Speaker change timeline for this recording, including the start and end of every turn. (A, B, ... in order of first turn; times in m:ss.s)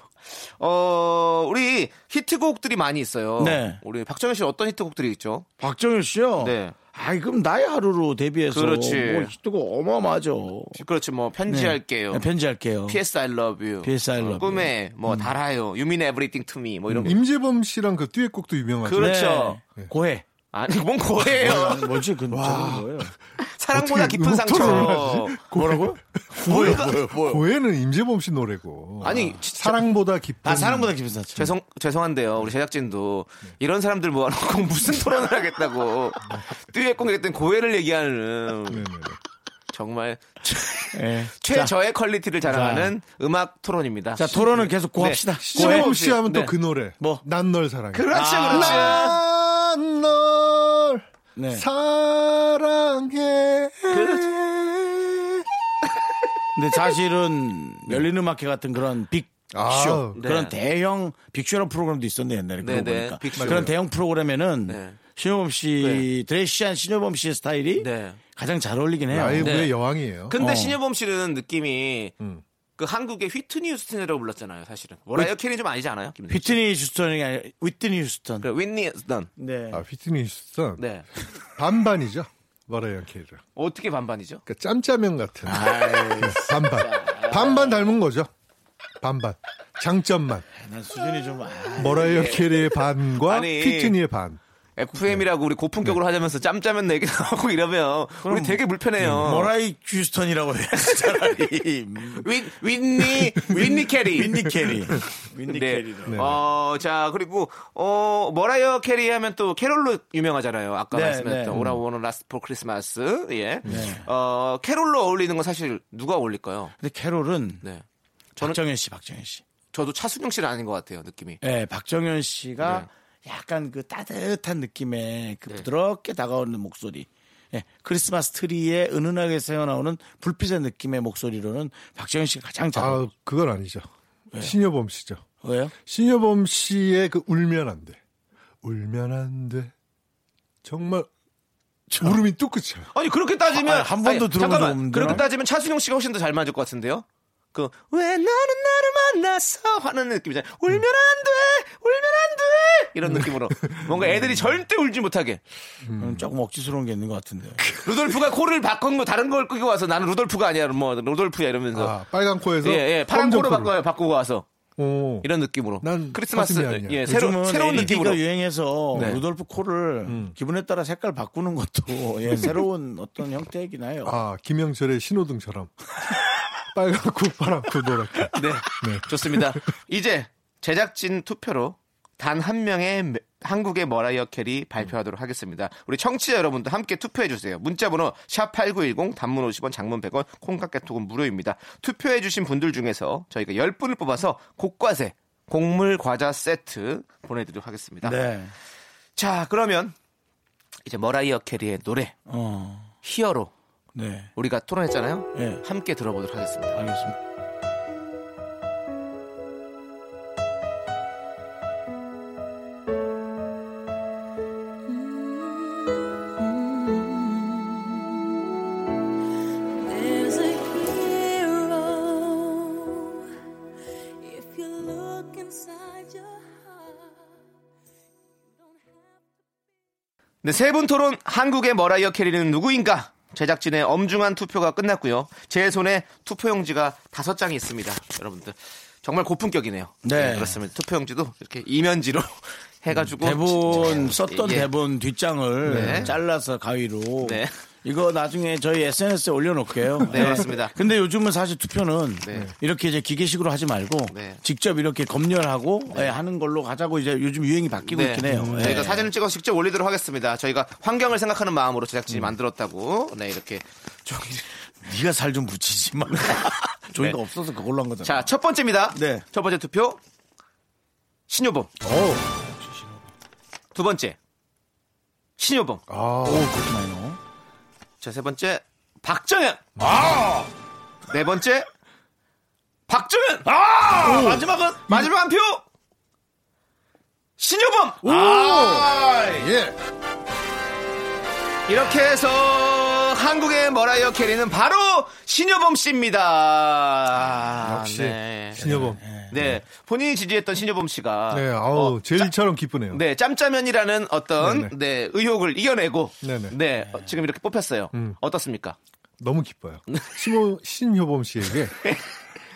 0:00.3-0:05.4 A
0:03.4-0:03.8 B
0:05.6-0:10.8 B
0:06.4-0:06.7 A
0:08.5-0:09.3 A
0:10.7-0:12.2 A
0:11.5-0:13.0 B
0:12.8-0:17.2 A
0:13.8-0:15.3 B
0:17.0-0:19.2 C
0:18.8-0:19.6 A
0:18.9-0:20.2 B
0:20.5-0:21.9 A
0:21.2-0:23.1 B
0:22.3-0:23.1 C
0:23.4-0:25.4 A
0:23.7-0:30.9 C
0:24.6-0:27.5 B
0:26.4-0:26.9 A
0:29.0-0:29.9 A
0:30.4-0:31.5 B
0:31.3-0:38.8 A
0:38.7-0:39.2 C
0:39.7-0:46.5 A
0:40.9-0:41.7 B
0:42.4-0:42.9 B
0:44.2-0:45.9 B
0:45.4-0:55.3 C
0:47.0-0:47.2 B
0:47.9-0:49.2 A
0:48.1-0:49.1 B
0:51.4-0:51.7 B
0:53.9-0:54.3 A
0:56.5-1:09.6 B
0:59.5-1:00.2 C
1:00.1-1:00.5 A
1:02.6-1:03.7 A
1:03.4-1:03.7 C
1:04.7-1:05.0 A
1:05.8-1:06.0 A
1:07.8-1:08.2 A
1:09.1-1:10.4 C
1:09.4-1:09.7 A
1:10.3-1:12.1 A
1:10.4-1:10.8 B
1:12.8-1:16.6 A
1:16.3-1:18.5 B
1:18.4-1:19.3 A
1:19.4-1:19.8 B
1:19.7-1:20.8 C
1:20.8-1:21.0 A
1:21.6-1:23.4 C
1:23.6-1:24.4 A
1:24.4-1:28.3 C
1:25.4-1:28.0 B
1:29.0-1:30.4 C
1:30.6-1:32.8 B
1:31.8-1:34.4 C
1:33.2-1:34.0 A
1:34.8-1:39.5 A
1:38.2-1:38.6 B
1:39.0-1:39.3 C
1:39.2-1:42.3 B
1:42.1-1:44.7 A
1:43.2-1:46.2 B
1:45.5-1:56.7 A
1:46.1-1:46.4 C
1:50.9-1:51.6 B
1:51.5-1:51.8 C
1:53.6-1:54.1 B
1:53.7-1:53.9 C
1:56.8-1:57.6 B
1:58.4-1:59.4 B
1:59.7-2:01.4 A
2:01.4-2:13.0 B
2:02.6-2:02.9 A
2:12.7-2:15.2 C
2:15.4-2:15.7 B
2:15.8-2:18.0 C
2:18.6-2:19.7 C
2:20.6-2:21.1 C
2:21.9-2:22.2 B
2:22.0-2:22.9 C
2:22.9-2:35.4 A
2:23.5-2:25.2 B
2:33.0-2:34.6 C
2:35.8-2:36.3 C
2:36.0-2:37.7 B
2:37.6-2:37.9 C
2:37.8-2:42.0 A
2:41.7-2:43.7 C
2:42.6-2:44.5 A
2:44.8-2:45.3 C
2:45.2-2:48.2 A
2:45.8-2:47.9 C
2:47.0-2:54.2 B
2:48.9-2:49.2 C
2:48.9-2:49.2 A
2:50.1-2:50.3 C
2:54.0-2:55.7 C
2:56.7-2:59.6 C
2:58.3-3:18.2 A
3:18.0-3:18.5 B
3:19.2-3:19.9 A
3:20.8-3:22.1 A
3:22.3-3:22.9 B
3:23.0-3:23.5 A
3:23.9-3:24.3 B
3:24.4-3:26.9 A
3:25.3-3:25.6 B
3:26.7-3:27.2 B
3:34.9-3:37.8 D
3:39.8-3:43.2 D
3:44.2-3:47.2 D
3:48.6-3:49.4 D
3:50.4-4:04.7 A
4:00.0-4:00.6 B
4:03.2-4:19.1 B
4:05.6-4:06.1 A
4:05.6-4:06.1 C
4:07.2-4:07.5 A
4:10.1-4:10.7 A
4:12.2-4:12.5 A
4:14.1-4:14.4 A
4:17.9-4:24.5 A
4:18.3-4:19.0 C
4:24.8-4:28.3 B
4:28.0-4:30.0 A
4:28.9-4:29.2 B
4:31.3-4:31.7 A
4:31.8-4:32.2 C
4:32.4-4:33.0 B
4:33.7-4:34.2 A
4:35.4-4:35.8 A
4:35.9-4:36.5 C
4:36.2-4:37.2 B
4:38.0-4:39.6 A
4:39.8-4:40.5 B
4:41.1-4:41.7 A
4:42.9-4:43.5 A
4:43.4-4:45.1 B
4:44.0-4:44.4 C
4:44.9-4:45.6 A
4:47.4-4:48.1 A
4:48.0-4:49.7 C
4:48.0-4:49.5 B
4:51.7-4:58.7 A
4:57.6-4:59.6 C
4:58.6-4:59.3 B
4:59.3-5:02.3 A
5:01.3-5:03.0 C
5:02.9-5:08.8 A
5:04.4-5:04.7 C
5:06.2-5:06.6 C
5:09.2-5:11.7 C